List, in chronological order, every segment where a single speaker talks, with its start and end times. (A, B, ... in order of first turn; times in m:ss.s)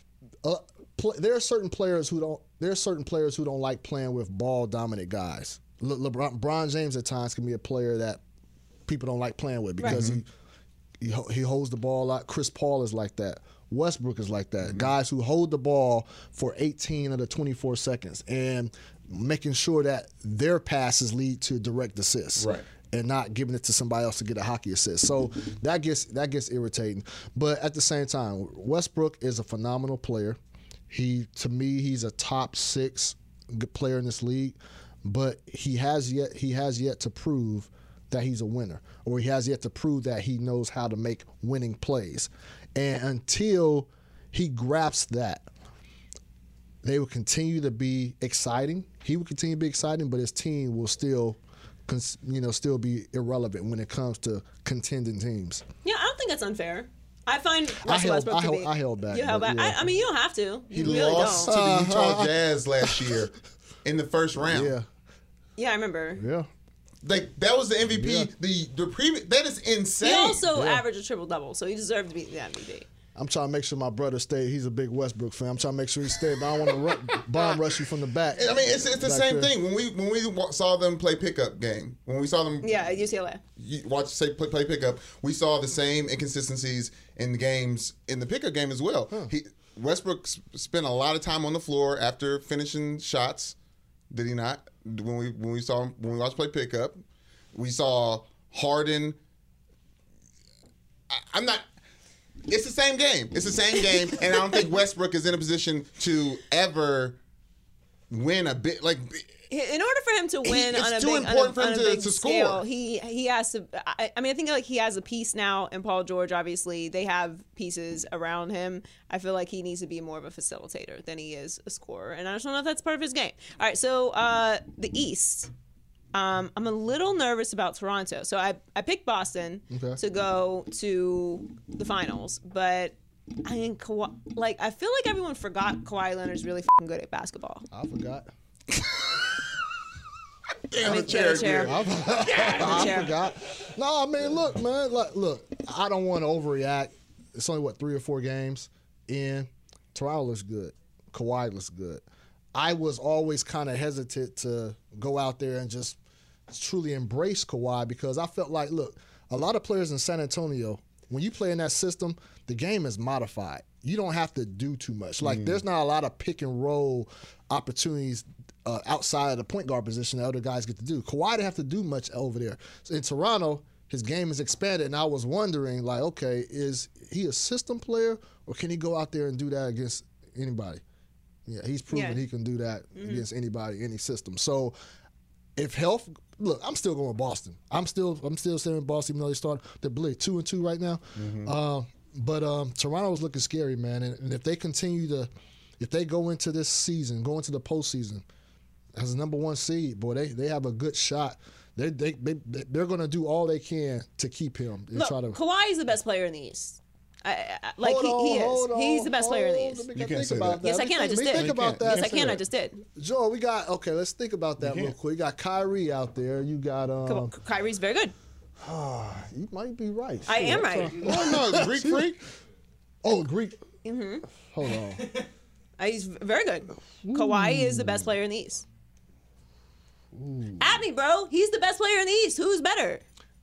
0:00.4-0:08.2 A
0:08.9-0:10.3 A
0:09.8-0:10.0 B
0:09.8-0:10.2 C
0:11.0-0:30.4 A
0:22.4-0:22.7 C
0:30.9-0:45.5 A
0:46.8-0:55.6 A
0:55.8-1:01.5 B
0:57.8-0:59.9 A
1:00.7-1:04.7 C
1:00.8-1:03.2 A
1:04.4-1:04.9 A
1:05.6-1:06.2 B
1:06.2-1:06.5 A
1:07.0-1:10.4 C
1:07.9-1:08.3 A
1:10.0-1:12.9 B
1:10.5-1:10.8 A
1:13.2-1:19.5 A
1:18.4-1:22.8 C
1:22.6-1:23.4 B
1:23.6-1:33.6 C
1:34.1-1:37.0 C
1:37.5-1:39.2 C
1:41.1-1:41.7 C
1:42.5-1:47.2 C
1:48.1-1:49.3 C
1:49.5-2:05.5 B
1:50.4-1:52.6 C
2:06.1-2:17.7 B
2:09.7-2:10.0 A
2:17.7-2:18.3 A
2:20.7-2:23.0 C
2:20.8-2:23.2 B
2:20.9-2:36.0 A
2:36.5-3:00.8 A
2:45.2-2:45.6 C
3:01.5-3:04.8 A
3:01.9-3:02.2 B
3:03.0-3:03.2 B
3:05.6-3:18.2 A
3:11.2-3:11.5 C
3:19.0-3:25.4 A
3:24.9-3:29.9 B
3:27.8-3:32.4 A
3:30.0-3:30.6 C
3:30.6-3:32.8 B
3:31.3-3:32.3 C
3:32.9-3:37.3 A
3:34.6-3:34.9 C
3:37.1-3:38.2 B
3:38.6-3:42.2 A
3:40.3-3:41.0 B
3:41.0-3:42.2 C
3:43.0-3:43.6 A
3:43.8-3:44.3 B
3:44.5-3:45.1 A
3:45.8-3:48.6 B
3:47.0-3:48.1 A
3:50.1-3:50.8 A
3:50.6-3:53.0 B